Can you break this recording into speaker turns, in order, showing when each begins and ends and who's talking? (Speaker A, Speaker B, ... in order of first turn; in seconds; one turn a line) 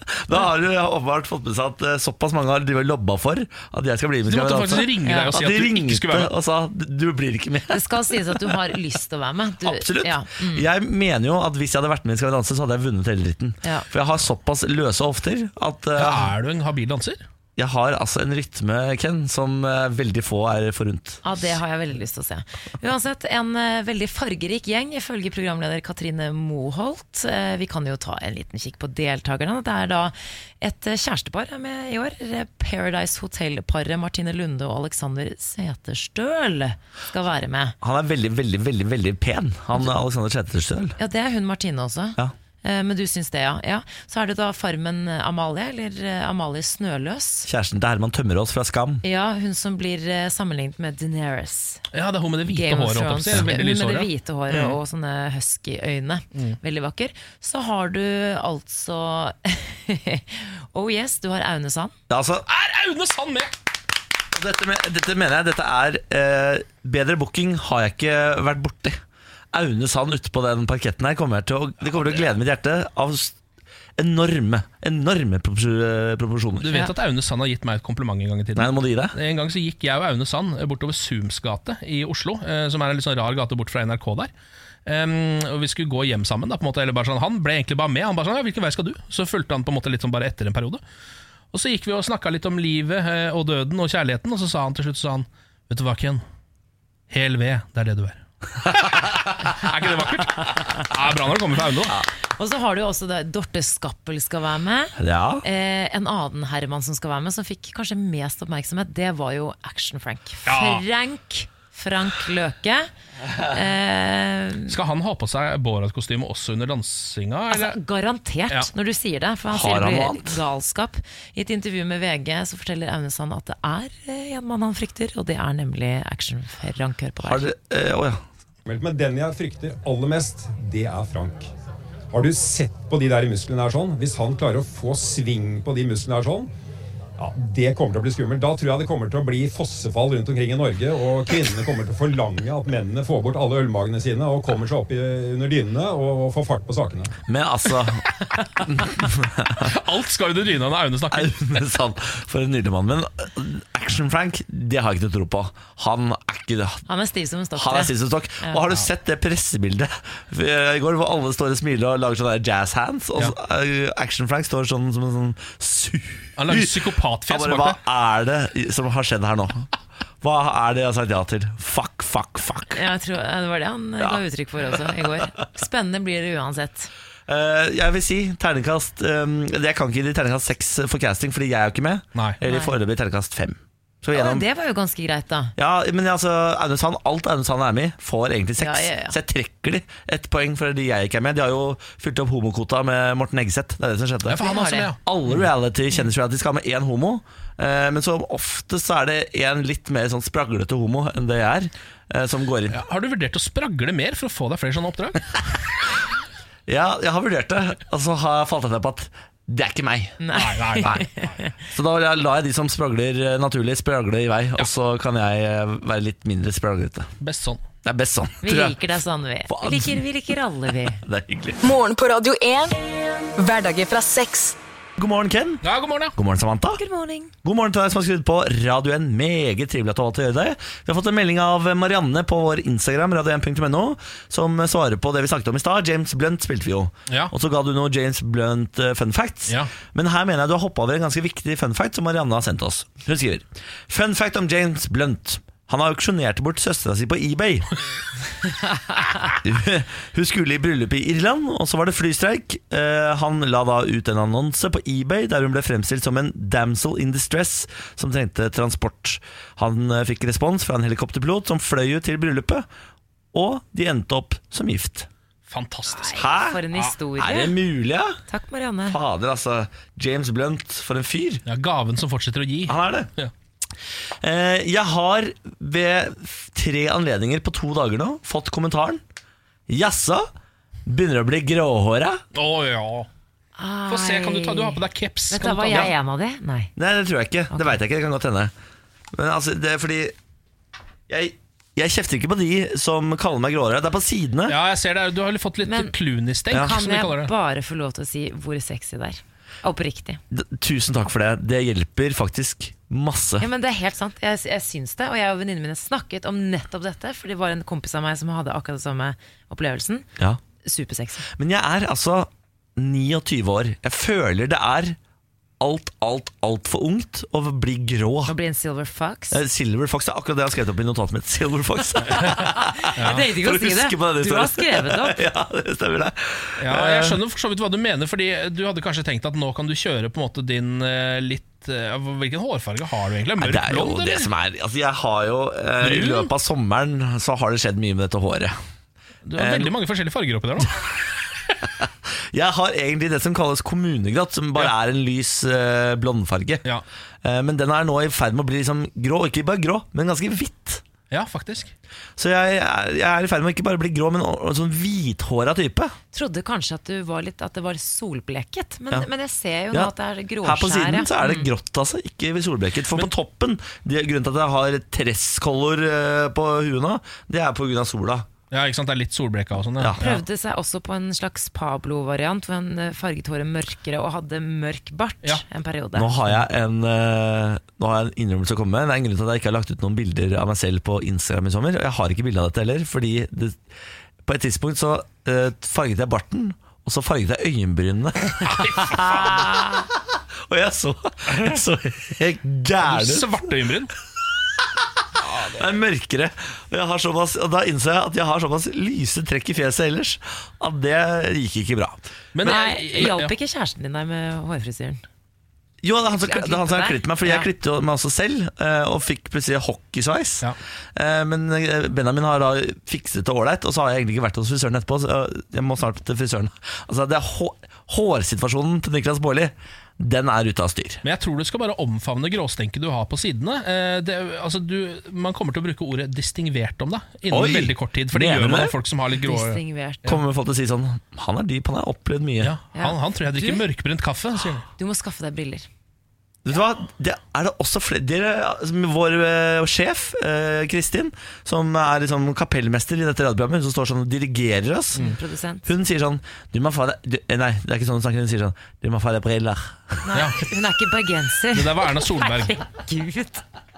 Speaker A: 0.3-7.8
Speaker B: 4.3-6.3
Speaker C: 5.0-5.3
Speaker C: 7.7-10.7
Speaker A: 9.6-16.3
Speaker C: 13.6-13.9
Speaker B: 15.9-17.2
Speaker A: 17.6-21.2
Speaker C: 21.2-37.8
Speaker A: 37.8-41.0
Speaker C: 41.0-47.5
Speaker A: 47.5-49.0
Speaker C: 49.0-51.8
Speaker B: 51.9-54.8
Speaker C: 52.5-62.0
Speaker A: 62.1-62.5
Speaker B: 62.5-63.6
Speaker A: 64.3-69.0
Speaker A: 69.5-73.3
Speaker A: 74.0-76.7
Speaker B: 76.6-84.3
Speaker A: 78.5-79.2
Speaker B: 84.8-90.8
Speaker B: 91.5-96.2
Speaker B: 97.1-102.0
Speaker C: 102.4-112.9
Speaker A: 105.0-105.4
Speaker B: 110.5-110.8
Speaker C: 113.5-114.8
Speaker B: 114.7-117.8
Speaker C: 117.5-127.5
Speaker A: 119.5-120.4
Speaker A: 127.2-128.2
Speaker D: 128.7-131.5
Speaker D: 132.1-136.5
Speaker D: 137.2-147.1
Speaker A: 147.3-148.1
Speaker A: 148.7-149.7
Speaker B: 149.6-151.7
Speaker A: 151.1-156.8
Speaker C: 156.9-158.6
Speaker A: 157.6-166.8
Speaker B: 166.4-167.8
Speaker A: 167.3-169.7
Speaker A: 170.2-172.8
Speaker C: 172.7-176.9
Speaker A: 177.3-184.4
Speaker C: 182.4-182.7
Speaker C: 184.1-185.5
Speaker A: 185.6-194.4
Speaker C: 188.6-189.2
Speaker B: 194.3-195.0
Speaker C: 194.4-194.9
Speaker A: 195.0-202.8
Speaker B: 202.7-205.6
Speaker A: 206.7-210.2
Speaker C: 210.2-211.5
Speaker B: 210.3-211.3
Speaker A: 211.7-217.1
Speaker B: 217.2-217.6
Speaker A: 217.8-218.8
Speaker C: 218.4-221.0
Speaker A: 219.5-220.0
Speaker A: 221.0-221.6
Speaker E: 221.6-222.8
Speaker E: 223.4-224.6
Speaker A: 225.0-226.8
Speaker B: 225.6-226.1
Speaker C: 226.8-227.3
Speaker A: 227.4-247.7
Speaker B: 239.5-239.7
Speaker A: 249.4-262.7
Speaker A: 263.3-265.1
Speaker B: 265.5-266.2
Speaker C: 265.9-267.6
Speaker A: 266.1-266.6
Speaker A: 267.2-268.2
Speaker C: 268.3-269.0
Speaker A: 268.9-271.4
Speaker B: 271.5-273.3
Speaker A: 272.7-273.1
Speaker A: 274.2-279.0
Speaker A: 279.7-280.3
Speaker A: 280.9-282.2
Speaker B: 282.3-283.1
Speaker C: 283.6-286.7
Speaker B: 283.9-285.9
Speaker A: 286.8-288.5
Speaker C: 287.5-287.8
Speaker A: 289.1-290.1
Speaker A: 291.1-294.6
Speaker B: 294.5-297.3
Speaker C: 295.6-295.9
Speaker C: 296.5-300.2
Speaker A: 300.3-303.5
Speaker C: 303.4-310.1
Speaker C: 310.6-311.3
Speaker A: 311.3-315.0
Speaker A: 315.6-318.3
Speaker C: 318.3-319.4
Speaker A: 319.3-327.2
Speaker C: 322.4-325.2
Speaker B: 323.0-323.3
Speaker B: 326.6-334.3
Speaker A: 333.4-338.6
Speaker B: 335.8-336.3
Speaker B: 339.2-340.8
Speaker A: 339.4-339.7
Speaker A: 342.3-346.6
Speaker A: 347.2-350.8
Speaker B: 351.1-351.7
Speaker A: 352.2-356.0
Speaker C: 356.1-361.5
Speaker A: 360.4-368.3
Speaker B: 368.5-370.2
Speaker C: 370.0-376.1
Speaker A: 376.0-383.6
Speaker A: 384.2-389.9
Speaker B: 388.5-389.5
Speaker A: 390.5-393.5
Speaker B: 392.8-393.9
Speaker B: 395.3-395.6
Speaker A: 395.4-402.1
Speaker B: 402.4-403.3
Speaker C: 402.4-405.0
Speaker A: 405.8-421.0
Speaker C: 406.1-407.5
Speaker B: 421.0-430.2
Speaker A: 427.3-428.8
Speaker C: 429.2-430.0
Speaker A: 430.1-432.5
Speaker B: 432.4-434.7
Speaker C: 432.8-433.7
Speaker C: 434.8-435.7
Speaker A: 436.4-445.0
Speaker C: 444.9-445.7
Speaker A: 445.6-450.0
Speaker C: 450.1-453.4
Speaker B: 450.1-450.4
Speaker B: 451.5-452.6